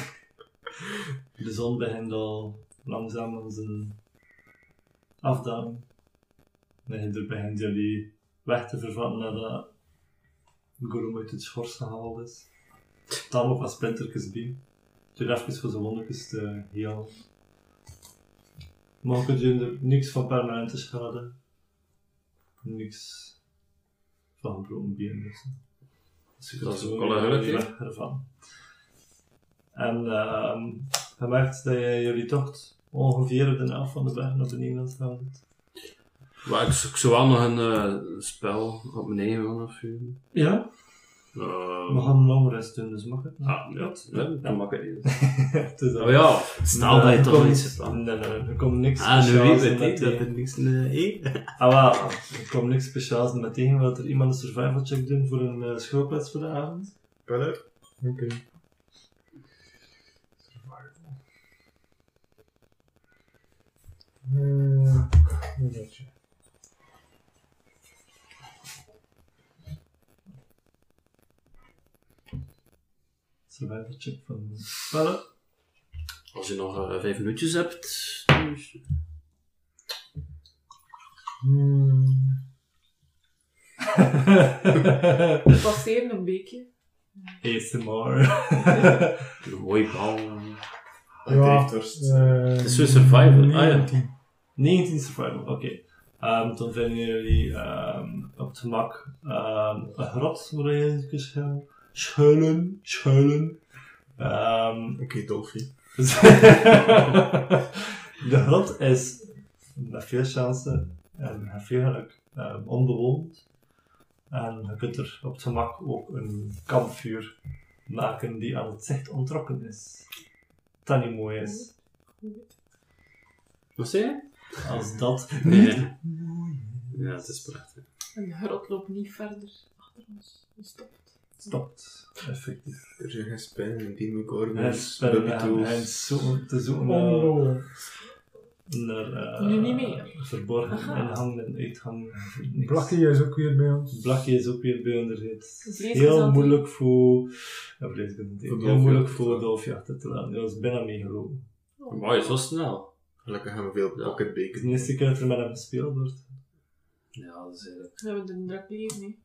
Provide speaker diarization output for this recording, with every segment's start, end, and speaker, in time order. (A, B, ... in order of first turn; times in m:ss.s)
0:01.4-0:04.0 A
0:05.2-0:05.9 A
0:06.8-0:09.7 A
0:10.8-0:12.5 A
0:13.2-0:14.6 A
0:15.1-0:17.2 A
0:19.0-0:21.3 A
0:22.6-0:23.4 A
0:24.4-0:25.6 A
0:26.4-0:28.7 A
0:26.5-0:27.7 B
0:29.7-0:35.4 A
0:36.4-0:40.2 B
0:40.3-0:41.2 A
0:41.3-0:42.2 B
0:41.9-0:50.3 A
0:43.4-0:48.2 B
0:49.0-0:51.6 B
0:51.6-0:56.9 A
0:57.2-0:57.6 C
0:58.0-0:58.4 D
1:00.5-1:00.8 C
1:04.2-1:06.1 D
1:13.5-1:15.2 A
1:16.3-1:18.8 B
1:21.4-1:22.4 D
1:24.2-1:25.3 A
1:25.5-1:26.7 E
1:27.4-1:29.2 A
1:29.4-1:30.6 B
1:31.2-1:32.4 C
1:31.3-1:34.1 D
1:32.6-1:33.9 B
1:34.6-1:43.6 A
1:44.2-1:45.0 A
1:45.0-1:45.7 C
1:46.0-1:53.5 A
1:54.3-2:00.1 A
2:00.8-2:01.7 A
2:01.4-2:02.5 E
2:03.8-2:04.6 B
2:04.6-2:07.6 A
2:05.4-2:06.0 B
2:06.9-2:07.9 B
2:08.1-2:11.6 E
2:11.4-2:12.8 A
2:13.0-2:16.0 C
2:14.5-2:17.5 A
2:16.8-2:17.7 D
2:18.7-2:23.0 A
2:19.4-2:20.2 E
2:20.7-2:21.1 E
2:22.5-2:24.0 D
2:23.9-2:31.4 A
2:25.7-2:26.6 E
2:28.4-2:29.5 C
2:31.8-2:32.4 E
2:31.9-2:32.9 B
2:33.2-2:35.0 C
2:33.9-2:34.2 B
2:34.5-2:36.3 A
2:37.1-2:38.0 B
2:38.0-2:39.2 E